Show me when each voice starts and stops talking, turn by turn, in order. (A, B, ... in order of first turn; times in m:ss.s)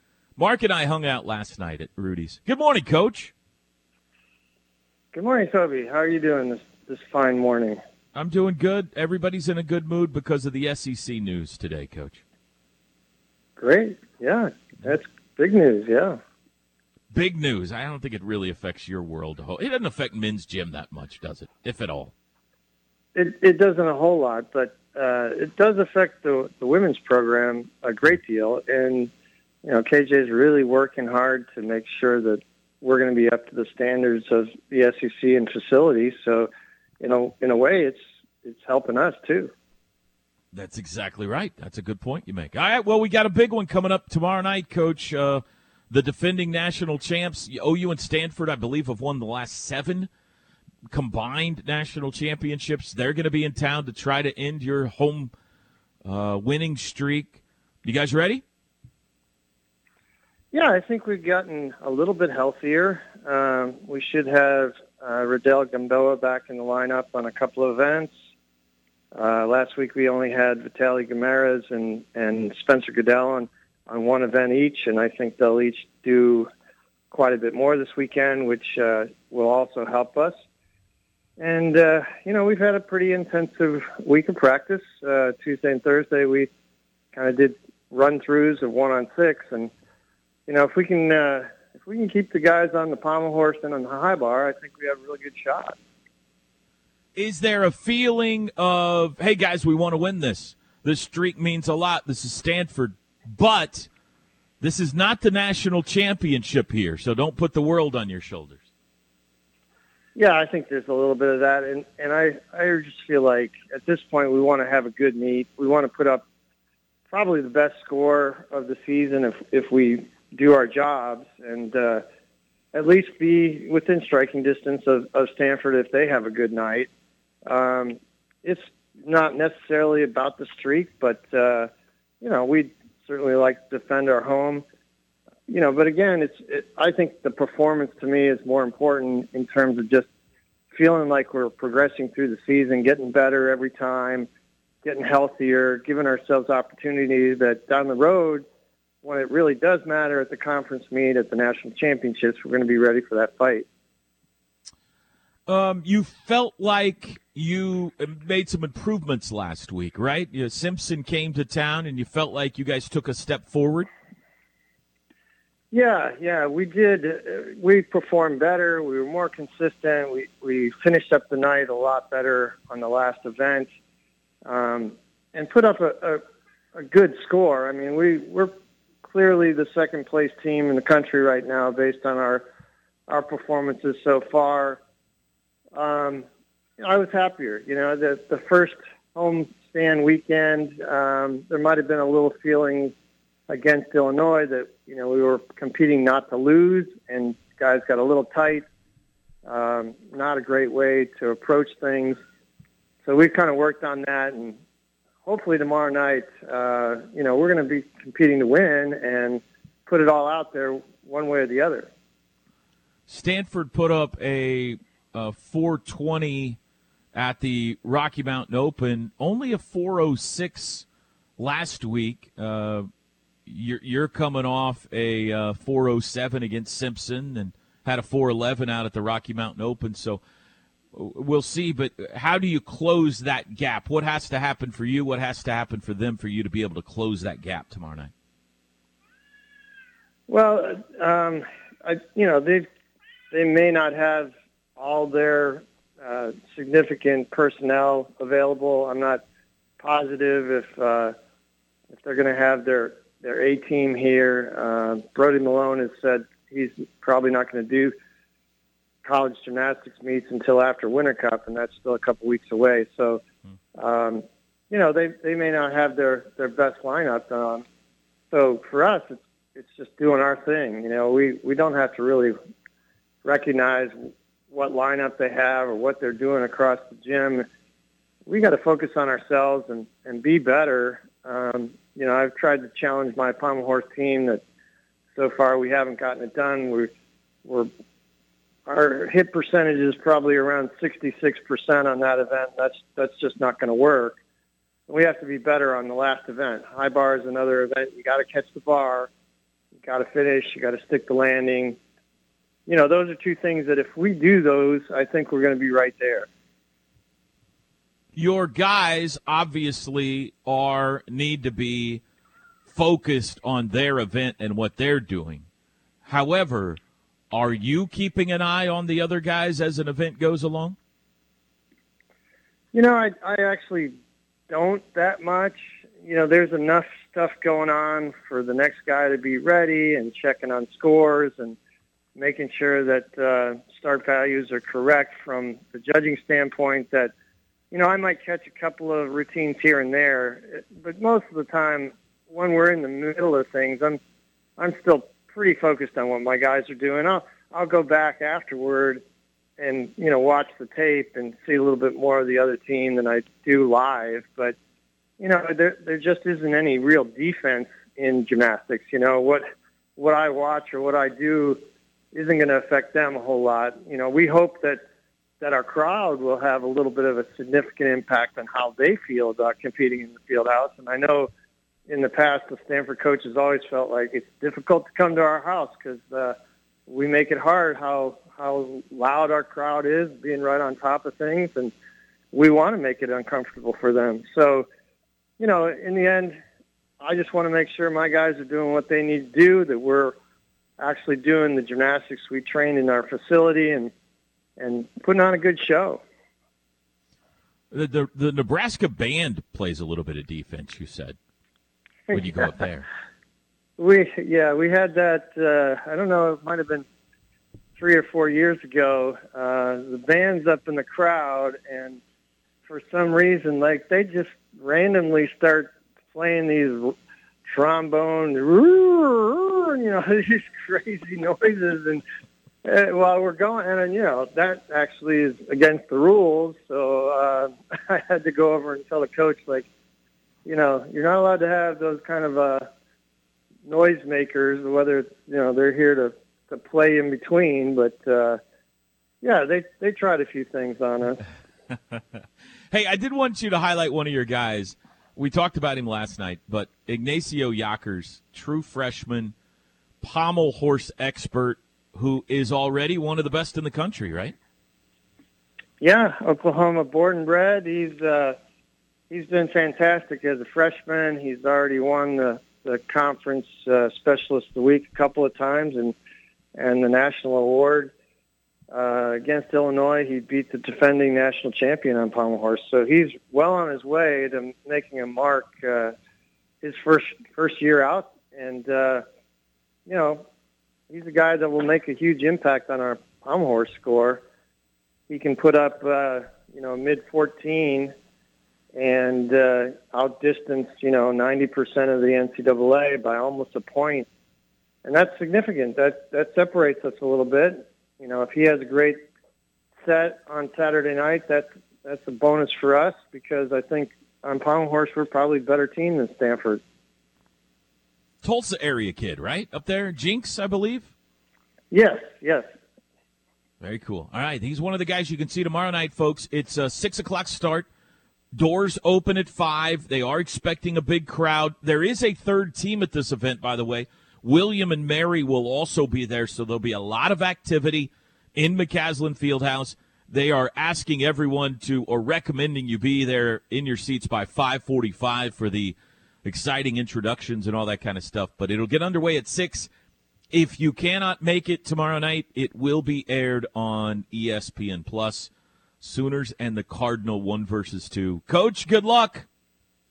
0:00.4-0:03.3 A
0:05.1-0:07.8 B
0:08.2-0:12.2 A
0:13.6-0:16.2 B
0:17.1-0:22.1 A
0:23.2-0:29.1 B
0:29.6-0:36.5 B
0:37.0-0:39.5 B
0:40.5-0:50.1 A
0:50.9-0:55.3 A
0:56.0-0:58.4 A
1:00.5-1:08.1 B
1:09.1-1:16.5 B
1:17.1-1:20.4 B
1:21.4-1:26.5 B
1:27.1-1:29.7 B
1:30.5-1:35.8 B
1:37.2-1:43.9 A
1:44.6-1:48.6 A
1:50.2-1:56.2 B
1:57.1-2:02.0 B
2:02.7-2:06.9 B
2:07.5-2:11.7 B
2:12.2-2:14.6 B
2:15.5-2:20.1 B
2:20.7-2:24.3 B
2:24.8-2:28.5 B
2:29.0-2:33.7 B
2:35.5-2:43.9 A
2:45.7-2:53.7 B
2:54.5-2:56.2 B
2:56.8-2:58.5 B
2:59.0-3:02.5 B
3:03.1-3:04.8 B
3:05.8-3:06.3 B
3:06.8-3:13.0 B
3:13.5-3:18.7 B
3:19.4-3:22.2 B
3:23.0-3:24.6 B
3:25.2-3:31.9 B
3:33.1-3:36.6 A
3:37.1-3:40.9 A
3:41.4-3:42.9 A
3:43.5-3:50.2 A
3:50.9-3:58.1 A
4:00.3-4:02.7 B
4:03.3-4:09.2 B
4:09.8-4:11.2 B
4:11.9-4:17.9 B
4:19.0-4:23.2 B
4:23.8-4:27.6 B
4:28.3-4:32.4 B
4:33.2-4:37.5 B
4:38.3-4:44.4 B
4:45.2-4:46.9 B
4:47.4-4:47.7 B
4:48.7-4:54.2 B
4:54.9-4:59.1 B
4:59.8-5:01.8 B
5:02.7-5:06.3 B
5:08.2-5:12.0 A
5:12.7-5:15.4 A
5:16.0-5:16.8 A
5:17.3-5:20.8 A
5:22.7-5:23.9 B
5:24.5-5:31.6 B
5:32.2-5:37.1 B
5:37.7-5:44.0 B
5:44.6-5:49.0 B
5:49.6-5:54.6 B
5:55.2-5:59.4 B
6:00.0-6:01.6 B
6:02.1-6:04.8 B
6:05.4-6:11.3 B
6:11.9-6:16.4 B
6:16.9-6:21.7 B
6:22.3-6:24.7 B
6:25.4-6:26.4 B
6:27.0-6:30.2 B
6:30.8-6:33.9 B
6:34.6-6:36.0 B
6:37.7-6:41.2 A
6:42.1-6:42.9 A
6:43.8-6:46.9 B
6:47.8-6:52.0 B
6:52.7-7:02.0 B
7:02.6-7:09.7 B
7:10.4-7:12.7 B
7:13.6-7:18.4 B
7:19.2-7:21.2 B
7:22.7-7:29.3 A
7:30.0-7:34.4 A
7:35.8-7:38.4 B
7:39.1-7:46.0 B
7:46.6-7:47.9 B
7:48.7-7:56.0 B
7:56.6-7:59.0 B
7:59.9-8:00.2 B
8:00.9-8:04.2 B
8:05.1-8:07.9 B
8:08.7-8:14.1 B
8:14.8-8:19.0 B
8:19.8-8:26.6 B
8:28.2-8:30.9 A
8:31.7-8:32.5 B
8:33.6-8:37.7 A
8:38.4-8:59.7 A
9:00.3-9:05.3 A
9:05.8-9:09.3 A